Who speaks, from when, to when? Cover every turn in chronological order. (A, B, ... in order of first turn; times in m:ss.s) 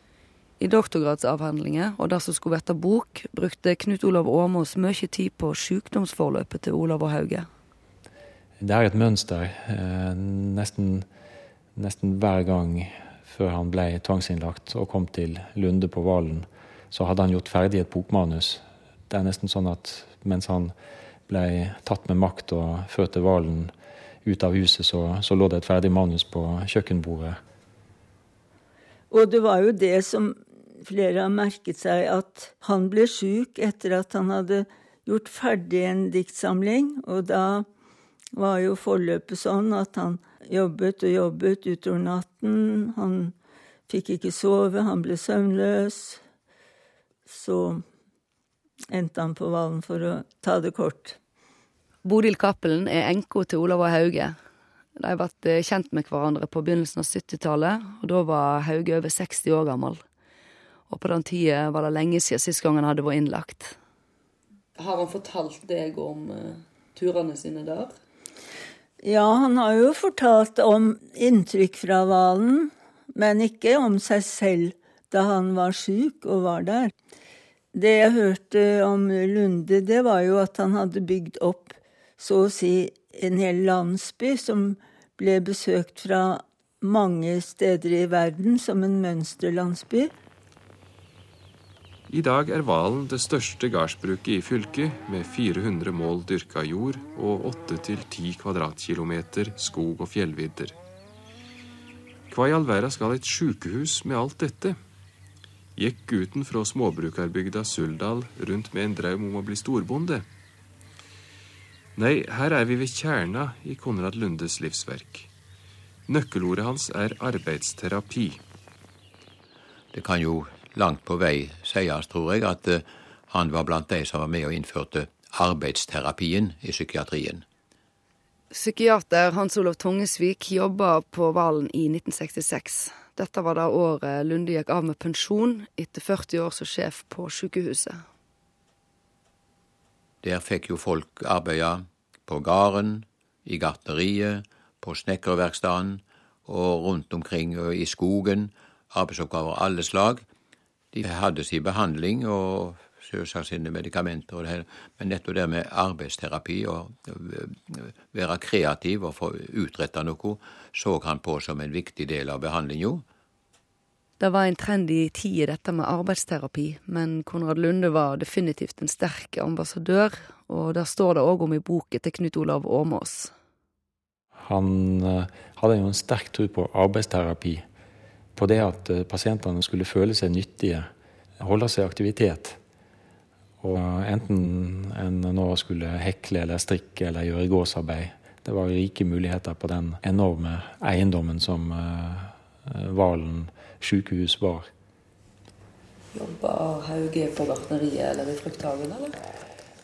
0:00.6-0:07.5 A
0:08.6-0:11.0 B
0:11.7-0:20.7 B
0:21.3-0:23.7 B
0:24.2-0:27.4 B
0:29.1-0:37.7 C
0:38.4-0:43.3 C
0:43.9-0:46.2 C
0:47.3-0:47.8 C
0:48.9-0:51.2 C
0:52.0-0:54.4 A
0:55.0-1:00.0 A
1:00.9-1:03.8 A
1:04.8-1:07.9 A
1:09.0-1:16.9 C
1:17.7-1:30.1 C
1:32.1-1:40.8 D
1:42.3-1:44.8 D
1:45.8-1:50.2 D
1:52.0-1:55.3 D
1:56.1-1:58.4 D
1:59.9-2:07.4 E
2:08.5-2:18.0 A
2:20.2-2:30.2 E
2:30.9-2:43.0 E
2:44.2-2:53.3 A
2:54.4-2:57.6 B
2:58.3-3:02.6 B
3:03.6-3:14.7 B
3:16.1-3:19.1 A